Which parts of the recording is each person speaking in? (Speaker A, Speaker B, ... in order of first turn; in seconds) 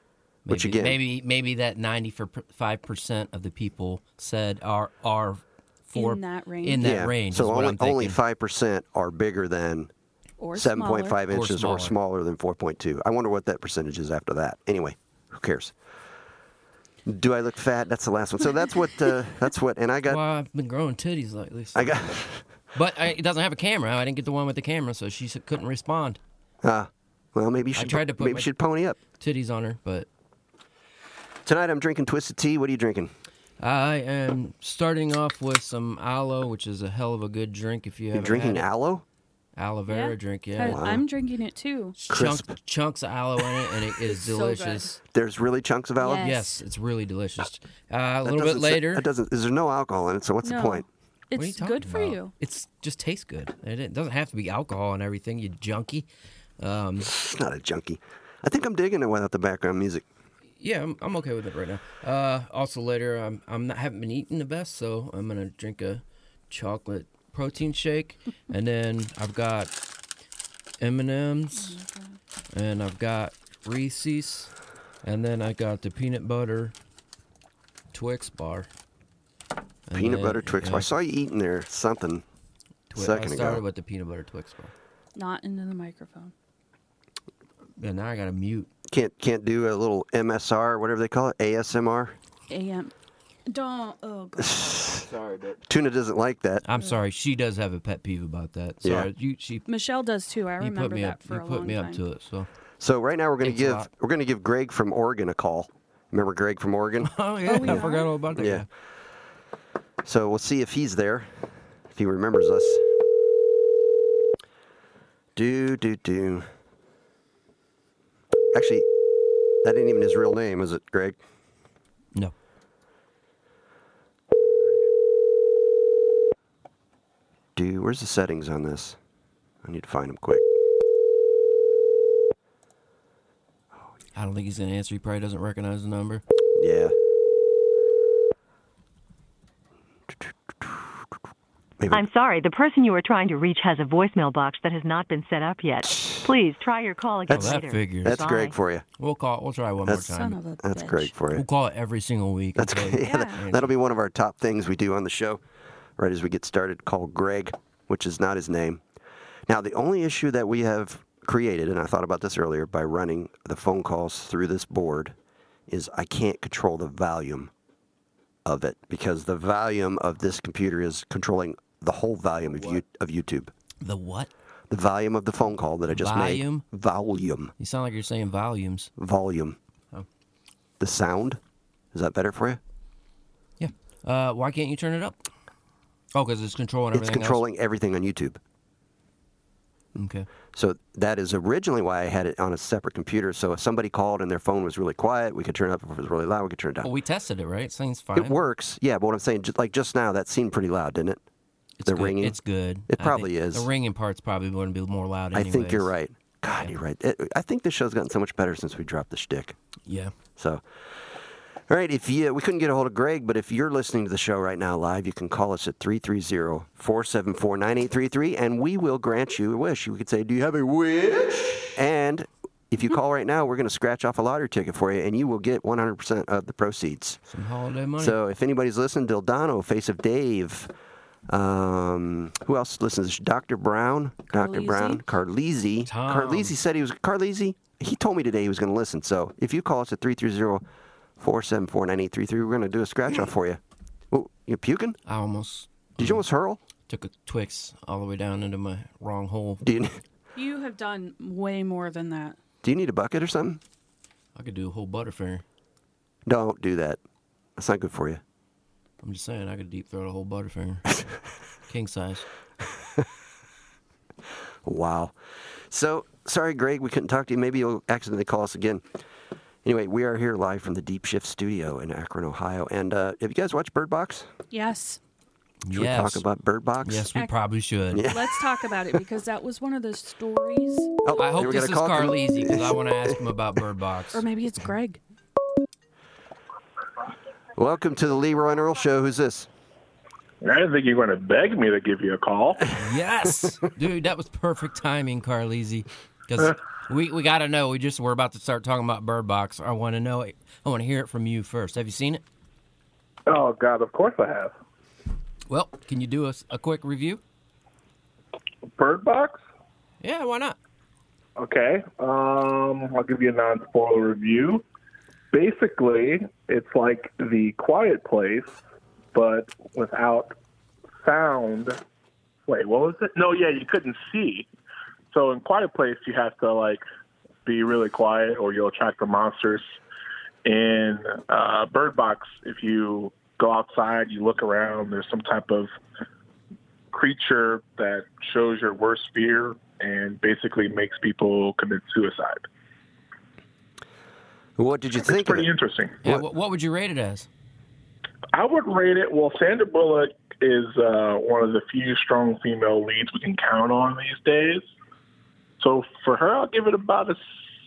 Speaker A: 0.5-1.0, 6.8-9.9, 10.6-15.7, 17.1-20.2, 21.8-22.4, 26.6-29.0, 31.4-33.1, 38.1-39.0, 40.6-41.0, 42.1-42.5, 45.1-46.4, 48.2-50.8, 57.1-60.0, 79.9-82.2, 83.0-83.6, 88.9-92.2, 94.4-95.0, 95.7-96.6, 98.8-99.1, 102.8-107.8, 108.3-108.7, 110.0-112.9, 115.4-116.5, 118.5-118.9, 119.6-121.2, 127.6-129.0, 129.6-130.4, 136.6-136.9, 141.8-142.1, 145.8-146.3, 147.3-148.8, 149.8-150.1, 150.6-151.4, 152.6-155.4, 156.0-158.8, 159.5-165.2, 165.7-167.5, 168.4-173.5, 174.7-177.5, 179.0-179.6, 180.8-181.4, 181.9-182.6, 186.9-188.4, 190.5-196.9, 198.2-201.2, 201.9-202.4, 202.9-203.7, 205.3-209.6, 210.4-210.6, 211.7-227.2, 228.0-230.7, 231.3-240.6, 241.2-243.6, 244.1-245.0, 246.0-246.6, 249.6-250.0, 252.6-253.6, 256.3-257.0, 257.6-258.2, 264.6-265.2, 265.7-268.8, 269.6-274.3, 275.7-277.1, 277.9-278.4, 281.0-283.2, 287.6-289.5, 344.6-345.5
Speaker B: 0.5-8.2, 11.3-11.9, 20.1-22.1, 22.7-26.2, 27.8-28.5, 29.0-30.1, 33.6-38.7, 39.6-40.9, 42.0-45.0, 46.2-49.1, 51.4-56.1, 56.6-57.1, 60.6-69.7, 70.8-71.8, 72.5-74.5, 75.0-76.7, 77.9-78.7, 79.9-80.9, 82.9-84.7, 87.8-88.7, 95.0-95.6, 96.6-99.7, 100.6-102.5, 103.4-103.9, 107.0-108.7, 134.2-136.2, 147.3-148.2, 149.0-150.4, 151.3-153.7, 172.5-172.8, 173.8-174.3, 175.9-176.6, 177.6-178.9, 183.6-185.2, 186.1-187.4, 189.9-190.3, 196.8-198.4, 201.8-205.9, 209.9-210.1, 227.3-228.2, 235.8-236.6, 245.1-246.2, 246.9-249.6, 254.3-255.4, 259.0-260.9, 261.7-262.3, 275.6-276.2, 276.8-278.1, 281.2-284.2, 292.7-302.2, 305.5-307.2, 310.0-310.6, 346.0-347.3
Speaker C: 5.9-6.9, 10.4-11.2, 39.9-42.0, 44.1-45.0, 46.0-46.6, 50.4-52.3, 71.5-72.2, 85.2-86.3, 92.5-92.9, 93.5-94.8, 99.7-102.0, 107.5-108.1, 150.0-151.1, 153.0-153.4, 234.3-235.0, 250.3-252.4, 274.5-275.0, 278.0-281.0, 284.1-285.0
Speaker D: 141.9-148.6
Speaker E: 290.4-292.7, 303.3-304.5, 308.8-309.4, 311.4-314.6, 315.3-318.6, 319.1-320.3, 321.0-321.8, 322.5-324.5, 325.1-326.8, 327.4-329.8, 330.4-335.7, 336.9-342.5, 345.0-346.0, 348.3-354.7, 355.6-357.2